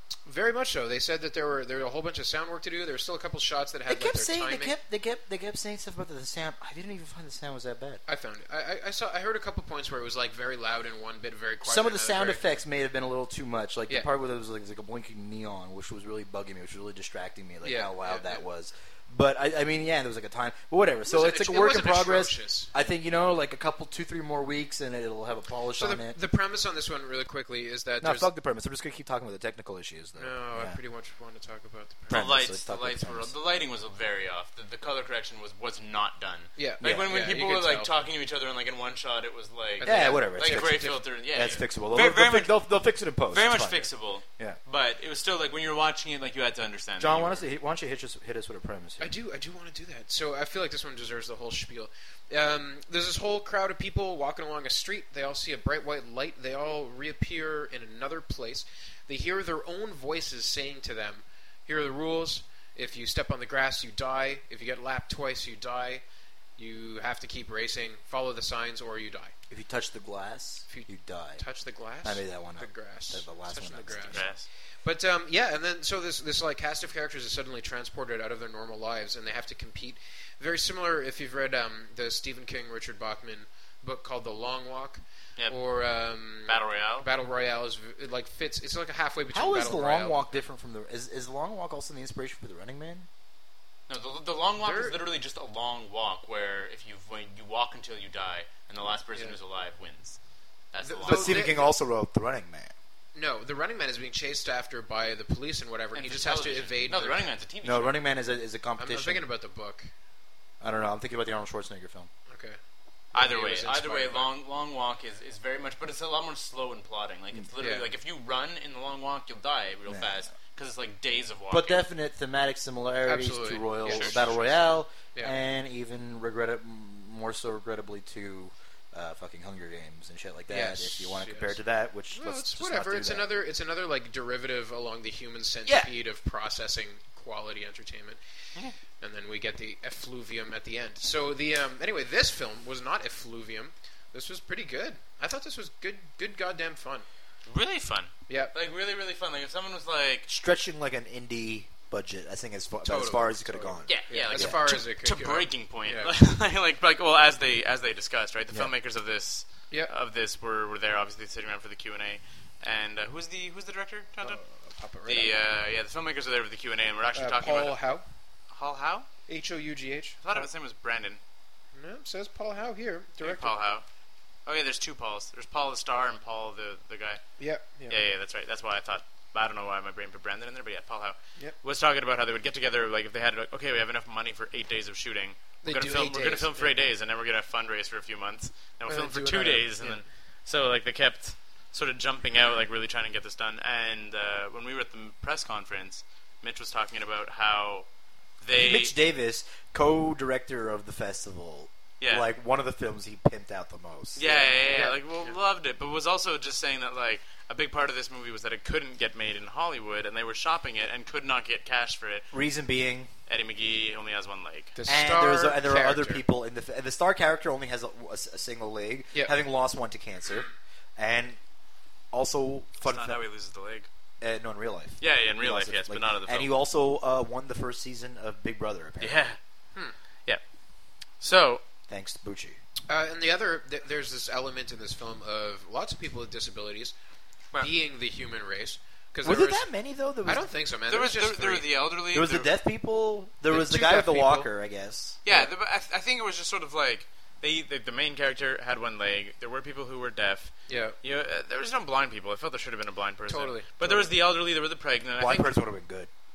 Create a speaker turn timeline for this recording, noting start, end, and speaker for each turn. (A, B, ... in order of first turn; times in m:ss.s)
0:00.3-0:04.8 A
0:03.9-0:08.0 B
0:08.1-0:12.5 A
0:11.6-0:26.2 B
0:17.6-0:18.4 A
0:21.1-0:22.7 A
0:25.8-0:28.3 A
0:28.0-0:30.8 B
0:30.2-0:32.2 A
0:32.1-0:33.3 B
0:32.1-0:42.6 C
0:36.6-0:37.9 A
0:36.8-0:37.1 B
0:39.8-0:41.0 A
0:39.8-0:44.6 B
0:43.3-0:47.4 C
0:47.0-0:49.1 B
0:49.0-1:06.0 A
1:06.6-1:09.3 A
1:09.5-1:11.4 B
1:10.7-1:30.4 A
1:12.0-1:14.3 B
1:14.1-1:14.5 C
1:26.5-1:27.1 C
1:29.3-1:33.1 B
1:33.9-1:40.2 C
1:34.6-1:35.0 A
1:40.7-1:41.5 C
1:40.8-1:41.7 A
1:41.1-1:42.7 B
1:43.2-1:47.3 A
1:45.9-1:48.0 C
1:47.6-1:49.3 B
1:48.8-1:49.9 A
1:50.6-1:52.1 B
1:52.3-1:52.6 A
1:53.1-1:54.3 A
1:53.1-2:01.8 C
1:57.6-1:57.9 A
1:59.9-2:00.2 B
2:01.5-2:13.3 B
2:03.1-2:04.2 A
2:03.9-2:04.8 C
2:10.5-2:11.6 A
2:12.1-2:18.2 A
2:19.0-2:27.1 A
2:27.5-2:30.3 C
2:30.3-2:34.6 B
2:32.8-2:36.1 A
2:33.9-2:44.4 C
2:44.2-2:45.4 A
2:45.1-2:47.8 C
2:47.2-2:48.0 A
2:48.5-2:49.1 C
2:49.3-2:50.5 A
2:50.2-2:51.2 C
2:51.8-2:53.5 A
2:53.2-2:53.8 C
2:54.5-2:57.2 C
2:57.4-2:58.0 A
2:57.9-3:17.9 C
3:05.6-3:06.8 A
3:08.9-3:10.0 A
3:18.4-3:18.9 C
3:18.5-3:24.9 B
3:22.0-3:22.3 C
3:24.2-3:32.3 C
3:24.7-3:25.3 A
3:32.3-3:33.1 B
3:33.3-3:34.8 C
3:34.8-3:36.2 A
3:34.9-3:41.4 B
3:42.1-3:43.2 B
3:42.8-3:43.9 C
3:44.2-3:49.2 B
3:45.0-3:46.5 C
3:49.0-3:49.4 C
3:51.2-3:51.6 C
3:51.9-3:52.6 B
3:52.9-3:57.0 A
3:57.6-3:59.7 A
3:59.2-4:00.5 B
4:00.2-4:01.7 A
4:00.9-4:02.5 C
4:02.1-4:05.2 B
4:03.5-4:04.5 A
4:05.2-4:15.6 C
4:10.7-4:11.0 A
4:13.3-4:14.1 A
4:15.2-4:16.1 B